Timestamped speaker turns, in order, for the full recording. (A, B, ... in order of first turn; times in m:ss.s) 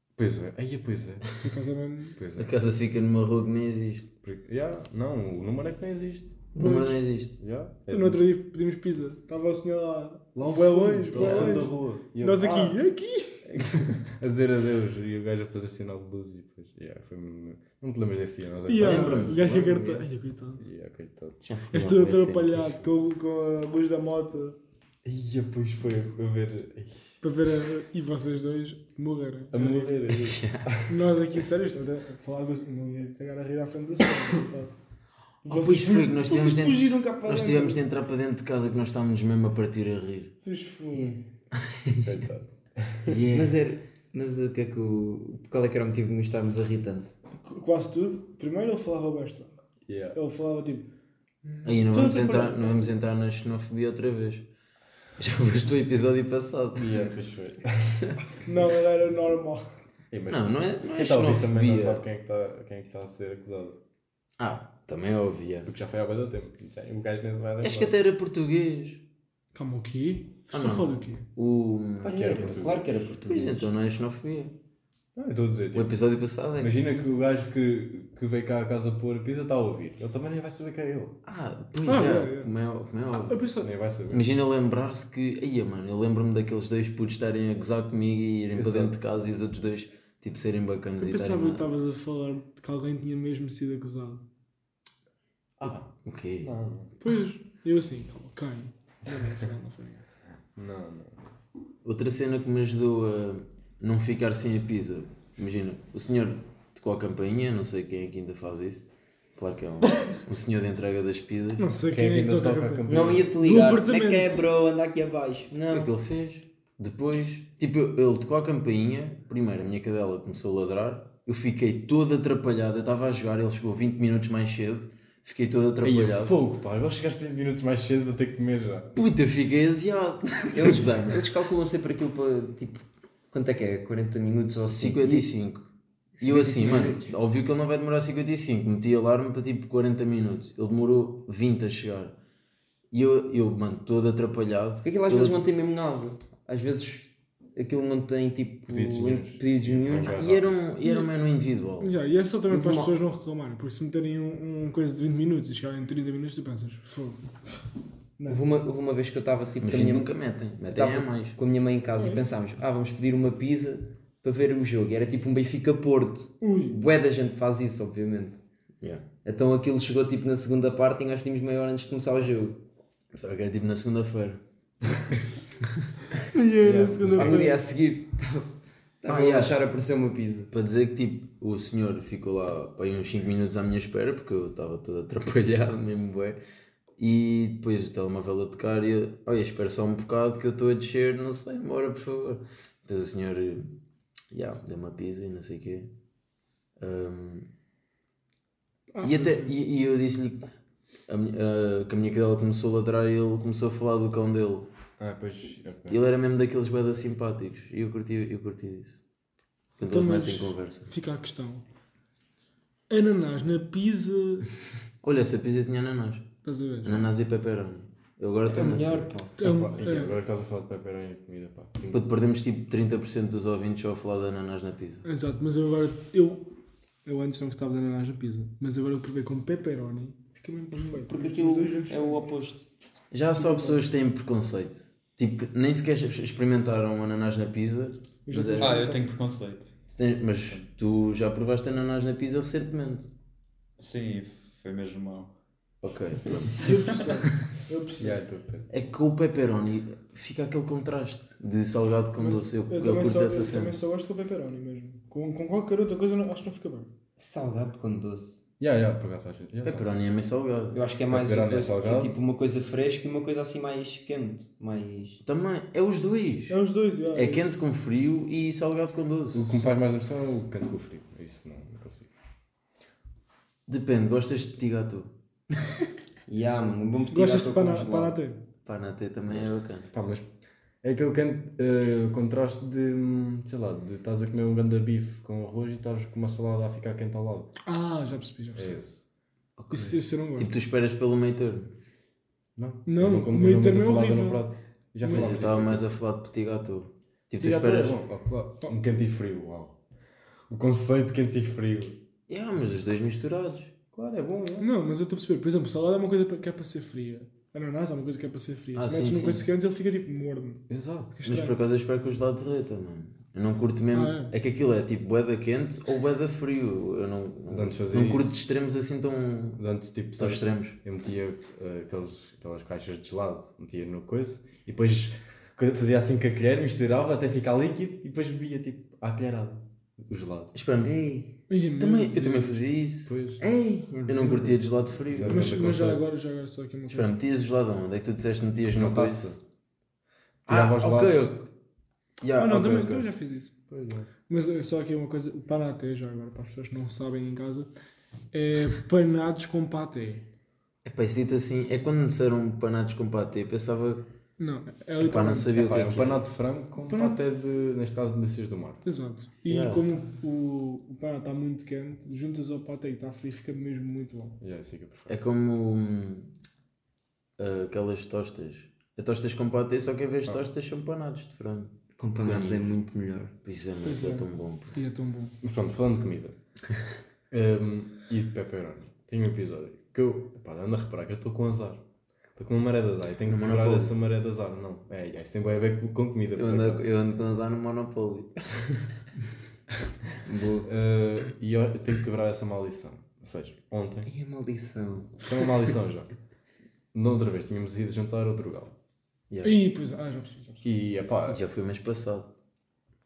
0:00.2-0:01.3 A
0:01.3-0:02.2 B
0:02.2-0:02.5 A
0:02.4-0:04.1 C
0:04.2-0:06.5 A
0:06.6-0:07.3 C
0:06.6-0:07.0 B
0:07.4-0:08.2 A
0:07.9-0:13.8 B
0:10.3-0:12.8 A
0:11.1-0:11.7 C
0:13.4-0:20.0 A
0:18.7-0:20.6 B
0:18.8-0:19.9 C
0:20.6-0:21.5 A
0:21.4-0:22.8 C
0:21.7-0:24.6 B
0:25.0-0:27.2 A
0:27.2-0:30.0 B
0:29.5-0:31.0 A
0:30.1-0:30.7 C
0:30.9-0:34.7 B
0:35.4-0:37.8 B
0:35.4-0:40.3 C
0:40.4-0:41.2 B
0:41.6-0:42.0 C
0:42.0-0:43.2 A
0:43.0-0:43.6 C
0:43.3-0:47.1 D
0:47.4-0:49.5 B
0:49.9-0:50.2 A
0:50.1-0:50.9 B
0:51.4-0:53.0 B
0:51.6-0:54.4 C
0:55.2-0:57.1 C
0:56.8-0:58.0 A
0:58.4-0:59.6 B
1:00.1-1:03.8 A
1:00.3-1:02.0 C
1:04.4-1:05.7 C
1:05.6-1:07.9 A
1:07.6-1:09.0 C
1:09.5-1:11.3 B
1:10.5-1:12.4 C
1:12.0-1:13.1 A
1:12.0-1:13.7 D
1:13.2-1:14.5 C
1:15.1-1:15.9 A
1:15.7-1:16.8 C
1:16.6-1:21.2 A
1:21.2-1:23.4 C
1:21.8-1:22.5 B
1:23.1-1:23.7 B
1:23.6-1:24.3 A
1:24.1-1:31.7 C
1:28.5-1:29.0 A
1:31.0-1:34.2 B
1:35.6-1:36.9 A
1:36.0-1:36.5 C
1:37.0-1:40.0 B
1:40.6-1:41.3 A
1:41.8-1:48.8 C
1:49.4-1:51.7 C
1:51.6-1:54.5 B
1:51.9-1:53.3 A
1:52.9-1:55.9 D
1:55.7-2:06.4 C
2:05.8-2:08.9 A
2:08.9-2:11.2 C
2:10.5-2:15.3 D
2:14.8-2:15.7 C
2:16.2-2:17.1 D
2:16.2-2:22.1 C
2:22.9-2:25.4 C
2:24.8-2:30.2 D
2:28.7-2:30.6 A
2:30.1-2:31.9 C
2:30.8-2:31.1 B
2:31.8-2:37.2 B
2:32.5-2:32.9 D
2:38.2-2:40.1 D
2:39.6-2:41.4 C
2:40.7-2:48.4 D
2:46.4-2:46.8 B
2:49.2-2:52.6 D
2:53.1-2:54.4 C
2:56.3-2:57.6 B
2:56.6-2:57.4 A
2:57.1-3:00.5 D
2:59.1-2:59.5 C
3:00.5-3:06.4 C
3:07.0-3:13.7 C
3:14.3-3:15.9 C
3:16.8-3:17.5 C
3:18.9-3:19.6 B
3:19.0-3:20.5 C
3:21.1-3:24.7 C
3:25.0-3:26.0 A
3:25.9-3:29.0 C
3:29.8-3:30.9 C
3:29.8-3:31.6 B
3:32.9-3:34.5 B
3:35.0-3:36.3 C
3:36.4-3:37.1 B
3:36.8-3:39.1 C
3:38.4-3:39.4 D
3:39.4-3:40.2 B
3:39.4-3:42.0 A
3:41.9-3:45.0 C
3:45.0-3:46.5 B
3:47.0-3:52.2 B
3:50.7-3:52.6 D
3:53.1-3:58.8 C
3:53.4-3:53.8 B
3:58.2-3:59.0 B
3:58.6-3:59.7 E
3:59.9-4:03.1 C
4:03.8-4:05.3 E
4:05.8-4:07.0 C
4:06.5-4:08.2 B
4:08.0-4:08.7 A
4:08.7-4:13.8 C
4:12.2-4:16.9 B
4:17.2-4:18.4 D
4:18.6-4:19.9 A
4:19.6-4:20.9 C
4:20.7-4:25.2 D
4:21.1-4:22.2 A
4:25.2-4:26.6 C
4:26.5-4:27.6 B
4:27.1-4:29.7 C
4:29.3-4:32.1 A
4:33.7-4:35.1 C
4:36.3-4:38.2 D
4:37.1-4:38.4 B
4:38.6-4:39.9 C
4:39.3-4:40.3 A
4:40.8-4:47.5 A
4:47.6-4:48.8 B
4:48.5-4:49.0 A
4:49.6-4:51.7 C
4:49.7-4:50.6 B
4:52.6-4:55.8 A
4:52.8-4:54.4 B
4:55.0-4:55.3 B
4:55.0-4:58.0 C
4:57.4-4:59.8 A
5:00.5-5:02.0 A
5:02.3-5:03.7 C
5:03.9-5:04.7 A
5:04.6-5:10.6 B
5:08.7-5:09.4 C
5:10.7-5:11.2 A
5:11.2-5:11.6 B
5:11.2-5:19.6 C
5:13.9-5:14.3 B
5:17.5-5:18.4 A
5:19.6-5:30.5 A
5:20.2-5:20.8 C
5:30.5-5:30.9 C
5:30.8-5:31.4 D
5:31.5-5:32.6 B
5:31.8-5:33.1 C
5:33.0-5:33.4 A
5:33.4-5:34.6 D
5:34.0-5:35.7 C
5:35.1-5:36.1 A
5:35.2-5:37.2 B
5:36.9-5:39.4 C
5:38.7-5:39.4 A
5:40.4-5:41.3 A
5:40.5-5:41.5 C
5:42.2-5:43.1 C
5:42.4-5:43.5 B
5:43.7-5:44.1 A
5:44.3-5:47.7 B
5:48.3-5:50.2 B
5:50.8-5:54.0 C
5:54.4-5:55.6 B
5:55.0-5:56.2 C
5:55.6-5:58.8 A
5:56.8-5:57.2 B
5:58.8-6:04.4 B
5:59.5-5:59.9 C
6:04.4-6:05.2 A
6:05.1-6:06.3 C
6:07.4-6:12.7 C
6:12.0-6:13.3 D
6:13.4-6:14.8 C
6:13.8-6:15.4 B
6:15.4-6:16.4 A
6:17.3-6:21.8 A
6:22.4-6:26.9 A
6:23.2-6:23.9 C
6:26.3-6:28.4 C
6:30.2-6:30.6 C
6:30.6-6:34.1 A
6:34.0-6:35.6 D
6:35.2-6:36.1 A
6:36.9-6:38.7 A
6:39.3-6:39.6 C
6:39.4-6:40.7 B
6:40.6-6:41.4 A
6:41.3-6:42.3 C